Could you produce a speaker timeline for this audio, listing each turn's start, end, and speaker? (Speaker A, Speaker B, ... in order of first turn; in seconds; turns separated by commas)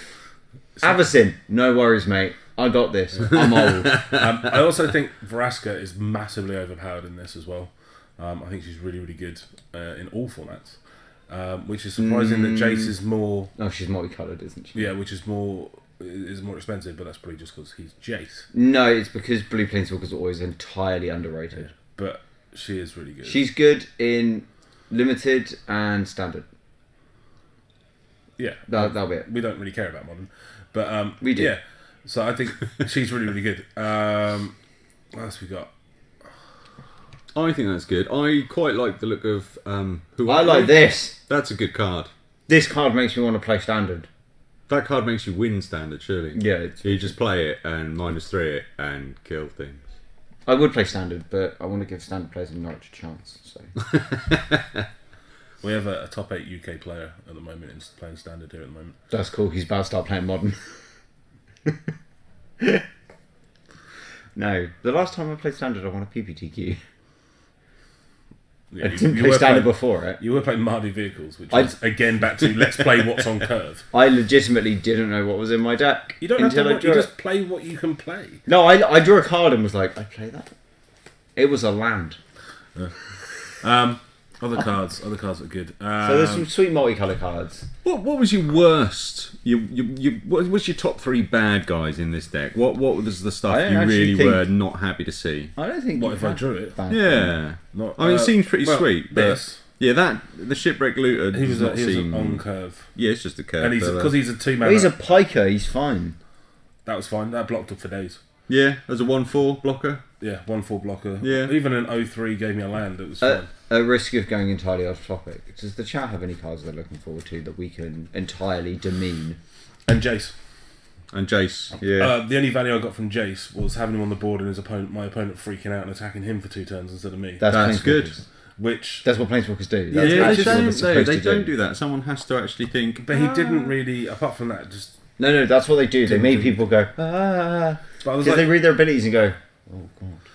Speaker A: 0.8-4.0, Speaker B: 3.2-13.5, Speaker A: 12.0-12.9, Speaker A: 13.6-14.9, Speaker B: 14.7-18.5, Speaker A: 18.5-21.7, Speaker B: 21.6-23.4, Speaker A: 23.2-26.4, Speaker B: 28.4-34.5, Speaker A: 28.7-29.3, Speaker A: 31.2-31.5, Speaker B: 35.1-35.7, Speaker C: 37.3-42.1, Speaker A: 40.2-41.2, Speaker A: 42.5-44.1, Speaker C: 44.7-49.9, Speaker A: 46.3-47.1, Speaker A: 50.5-53.7, Speaker B: 55.6-59.0, Speaker A: 59.1-60.7, Speaker A: 64.3-66.8, Speaker B: 68.7-73.8, Speaker A: 68.8-70.2, Speaker A: 73.9-77.1, Speaker B: 76.2-78.4, Speaker A: 78.5-80.5, Speaker A: 81.3-82.2, Speaker B: 82.8-86.5, Speaker A: 86.0-87.7, Speaker C: 87.8-95.5, Speaker A: 93.5-94.4, Speaker A: 95.5-97.4, Speaker B: 96.0-96.7, Speaker C: 96.9-102.4, Speaker B: 97.7-99.6, Speaker B: 101.3-102.9, Speaker C: 102.9-104.2, Speaker B: 103.6-104.9, Speaker A: 104.6-106.2, Speaker B: 106.8-108.2, Speaker C: 108.5-110.0, Speaker B: 110.2-113.5, Speaker C: 111.2-111.5, Speaker A: 113.2-119.4, Speaker B: 119.8-120.3, Speaker C: 121.1-122.2, Speaker B: 122.0-127.4, Speaker A: 127.4-128.2, Speaker C: 127.5-128.2, Speaker B: 128.6-129.0, Speaker A: 129.0-131.5, Speaker B: 129.9-130.9, Speaker C: 130.0-133.1, Speaker B: 133.0-134.9, Speaker A: 133.1-133.7, Speaker A: 135.2-140.2, Speaker B: 136.1-136.6, Speaker B: 138.0-138.5